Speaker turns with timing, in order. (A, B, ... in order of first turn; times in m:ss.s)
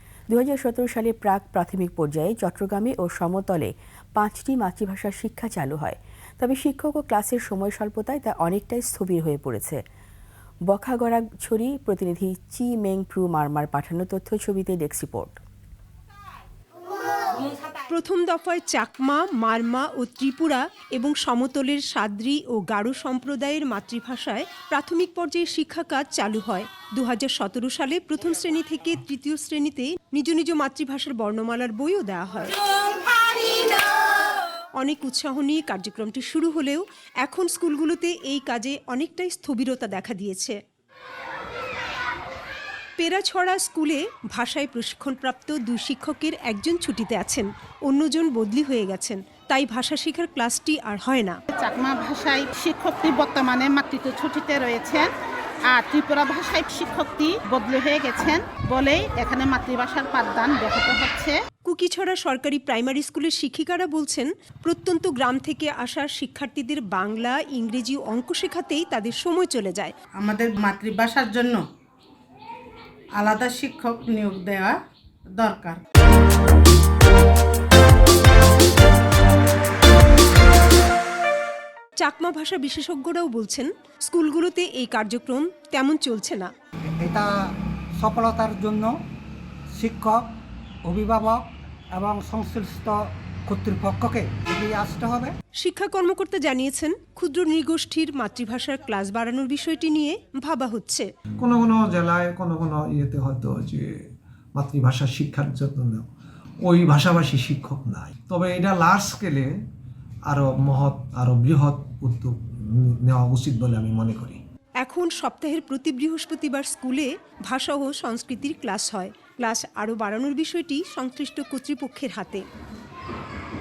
0:00.3-0:09.8 A
0:10.7-0:15.4 A
0:17.9-0:33.8 B
0:34.8-0:40.6 B
0:43.0-0:51.4 B
0:51.5-0:55.1 C
0:55.7-1:01.4 C
1:01.7-1:10.0 B
1:10.2-1:11.6 D
1:13.2-1:14.8 D
1:15.4-1:15.8 C
1:22.0-1:26.5 B
1:27.0-1:27.3 E
1:28.0-1:28.9 E
1:29.8-1:30.2 E
1:30.9-1:35.3 E
1:35.6-1:41.1 B
1:41.4-1:43.9 F
1:44.6-1:46.1 F
1:46.6-1:49.5 F
1:50.3-1:54.4 F
1:54.8-2:02.4 B